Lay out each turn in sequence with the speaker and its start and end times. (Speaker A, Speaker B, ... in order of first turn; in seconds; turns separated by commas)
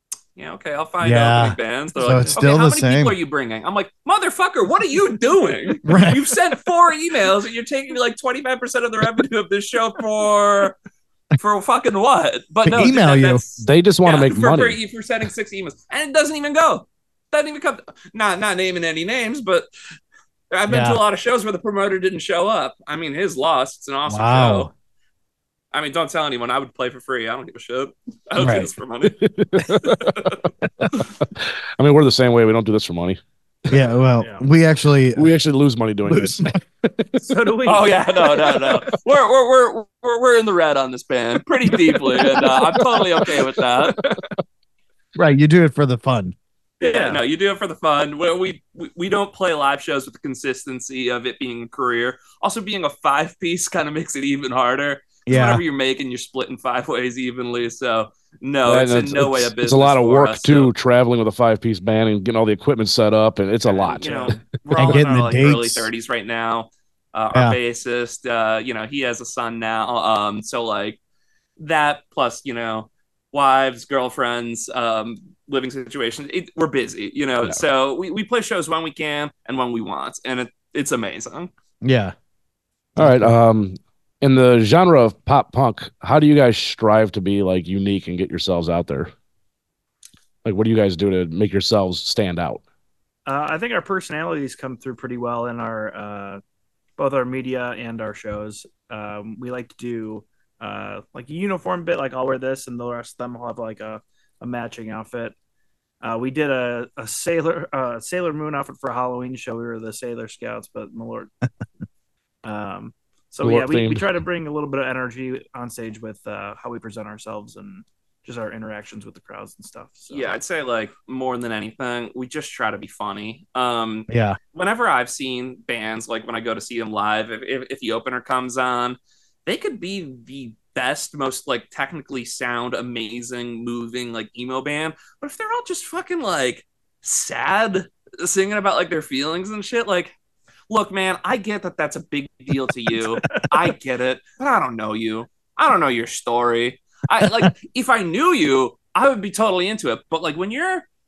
Speaker A: 0.4-10.8, Speaker B: 1.0-3.2, Speaker B: 5.8-6.2, Speaker A: 11.4-19.7, Speaker B: 12.7-13.4, Speaker C: 13.6-14.8, Speaker A: 20.5-24.7, Speaker B: 20.7-21.0, Speaker B: 24.1-24.7, Speaker A: 25.7-29.2, Speaker B: 28.4-28.7, Speaker C: 29.1-30.3, Speaker A: 29.8-30.4, Speaker C: 30.9-33.2, Speaker B: 33.7-35.3, Speaker D: 34.2-34.5, Speaker C: 35.2-36.5, Speaker B: 36.1-36.6, Speaker D: 37.2-38.5, Speaker A: 37.7-44.0, Speaker C: 42.5-43.2, Speaker B: 45.2-46.4, Speaker D: 46.8-47.2, Speaker A: 46.8-60.7, Speaker B: 55.3-55.6, Speaker C: 58.7-64.3, Speaker D: 63.7-64.4, Speaker A: 63.7-71.0, Speaker B: 64.8-65.9, Speaker A: 71.6-81.5, Speaker B: 81.8-82.1, Speaker B: 83.0-83.3, Speaker C: 83.0-89.1, Speaker C: 90.5-92.6, Speaker D: 93.3-96.4, Speaker D: 97.0-105.3, Speaker D: 106.0-111.3, Speaker D: 112.4-120.4, Speaker C: 113.4-114.1, Speaker A: 120.1-140.1, Speaker B: 124.1-124.4, Speaker A: 140.7-150.9